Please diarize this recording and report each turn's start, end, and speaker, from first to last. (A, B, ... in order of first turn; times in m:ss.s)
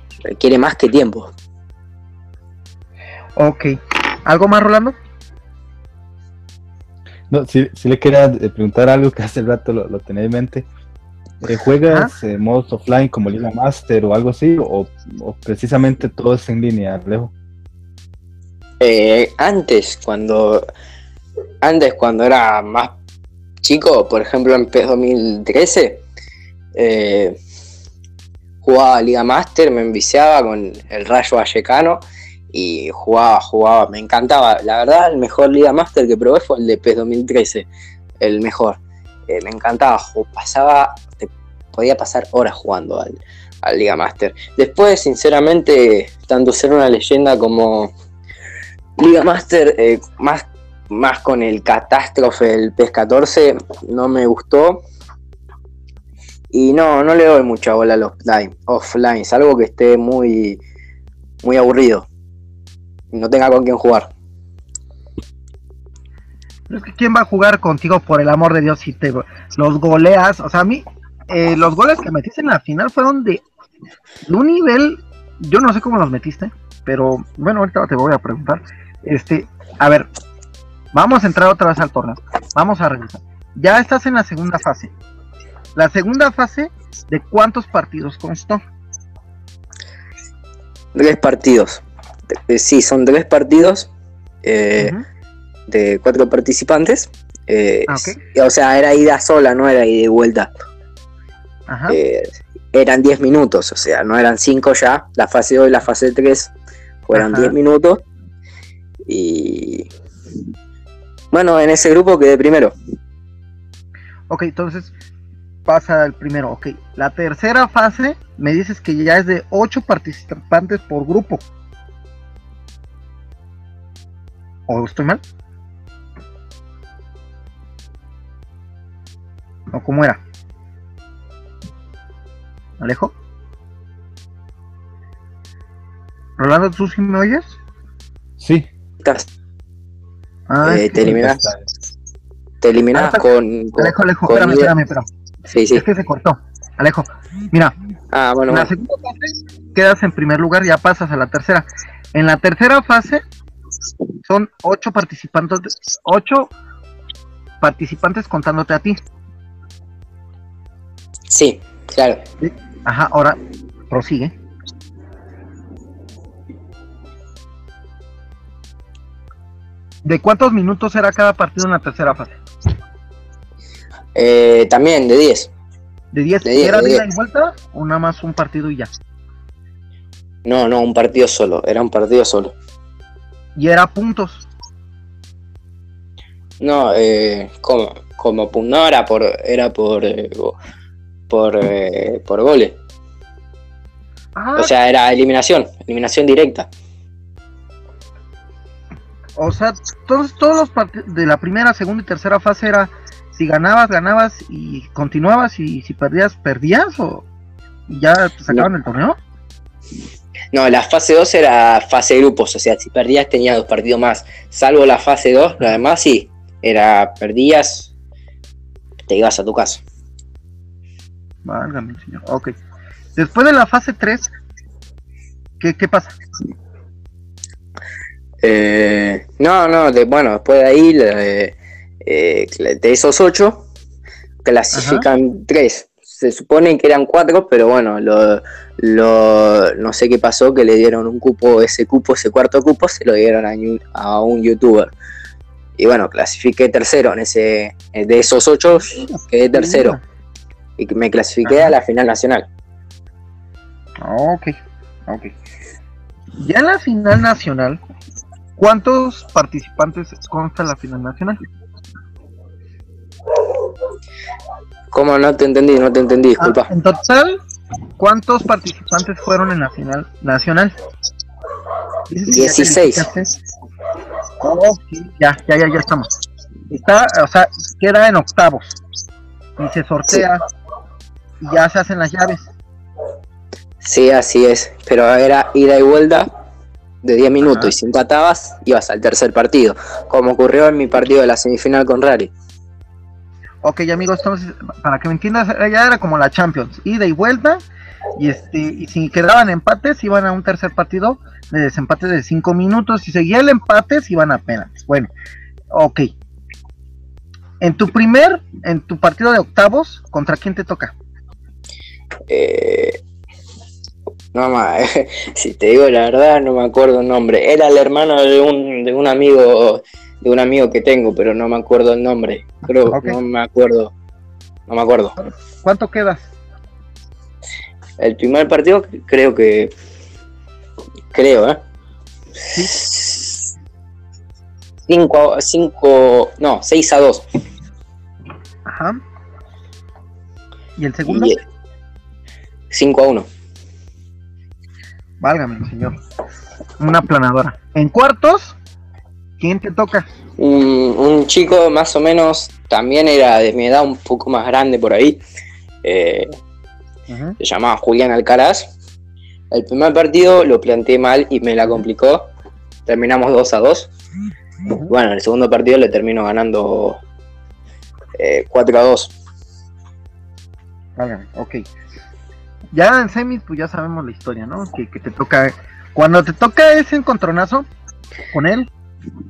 0:00.2-0:01.3 A
0:03.4-0:05.0 B
0:07.3-0:10.7 C
0:11.4-0:17.3 C
0:18.8-0:20.7 A
0:21.6-0:22.9 A
0:23.6-0:26.0 A
0:26.8-0:27.4 A
0:28.6-0:32.0 A
0:32.5-0:37.7 A
0:38.2-0:47.9 A
0:49.0-0:54.8 A
0:56.5-1:00.6 A
1:01.4-1:02.1 A
1:03.1-1:04.1 A
1:06.7-1:13.4 B
1:14.2-1:20.1 B
1:20.9-1:24.9 B
1:25.8-1:28.6 B
1:31.0-1:31.8 A
1:32.5-1:33.9 A
1:34.4-1:34.9 A
1:34.8-1:35.0 B
1:35.7-1:40.5 A
1:37.9-1:38.2 B
1:41.7-1:42.0 B
1:41.9-1:46.5 A
1:47.1-1:48.0 A
1:47.1-1:47.5 B
1:49.1-1:49.9 A
1:51.3-1:52.7 A
1:54.3-1:54.9 B
1:55.7-2:01.4 B
2:04.7-2:05.2 B
2:09.7-2:10.2 B
2:12.8-2:13.1 B
2:16.4-2:17.6 B
2:18.4-2:18.7 C
2:20.5-2:21.2 B
2:20.6-2:21.4 A
2:21.0-2:21.6 C
2:22.6-2:24.7 A
2:22.9-2:23.2 B
2:23.8-2:25.1 B
2:25.5-2:25.8 A
2:25.7-2:27.7 B
2:28.1-2:28.7 A
2:28.5-2:33.2 B
2:34.3-2:36.5 B
2:37.6-2:39.0 B
2:41.3-2:42.2 A
2:42.4-2:43.4 B
2:43.9-2:44.3 B
2:50.0-2:52.4 B
2:54.2-2:55.5 A
2:56.1-2:58.9 B
2:56.4-2:57.0 A
3:00.4-3:02.6 A
3:03.6-3:04.5 B
3:06.6-3:10.6 A
3:11.3-3:12.8 A
3:14.4-3:14.7 B
3:14.6-3:16.7 A
3:19.4-3:27.3 B
3:27.9-3:29.2 B
3:30.5-3:37.9 A
3:39.1-3:39.8 A
3:41.4-3:42.5 B
3:43.2-3:44.3 B
3:45.6-3:46.2 B
3:48.4-3:53.6 A
3:54.4-4:04.9 A
3:54.7-3:55.1 B
4:05.8-4:10.0 A
4:09.0-4:10.0 B
4:10.8-4:12.5 A
4:11.4-4:11.7 B
4:14.0-4:14.6 B
4:16.4-4:17.8 B
4:18.6-4:21.4 B
4:24.9-4:26.7 A
4:26.4-4:27.4 B
4:28.0-4:30.7 B
4:32.1-4:33.3 B
4:32.3-4:33.1 A
4:34.4-4:36.1 B
4:36.7-4:38.8 B
4:39.6-4:40.4 B
4:41.4-4:42.5 B
4:43.8-4:46.3 A
4:47.0-4:52.3 A
4:47.4-4:47.7 B
4:53.6-4:57.6 B
4:58.2-5:05.1 B
5:05.7-5:06.1 B
5:07.6-5:10.9 B
5:12.3-5:13.0 A
5:14.3-5:23.9 A
5:22.9-5:23.2 B
5:24.7-5:25.1 A
5:25.2-5:26.3 B
5:28.0-5:29.7 A
5:31.1-5:31.6 A
5:32.5-5:32.8 B
5:32.7-5:33.4 A
5:34.9-5:37.2 A
5:38.7-5:39.0 B
5:40.8-5:41.4 B
5:41.1-5:41.4 A
5:42.7-5:43.3 A
5:45.2-5:46.0 B
5:46.8-5:48.6 B
5:49.4-5:50.1 B
5:50.4-5:55.2 A
5:55.8-5:56.4 A
5:57.1-5:57.4 B
5:57.4-5:58.7 A
5:59.5-6:02.3 A
6:02.9-6:03.9 A
6:04.9-6:07.0 A
6:08.2-6:09.1 A
6:11.0-6:11.7 B
6:12.7-6:17.7 B
6:18.3-6:18.7 B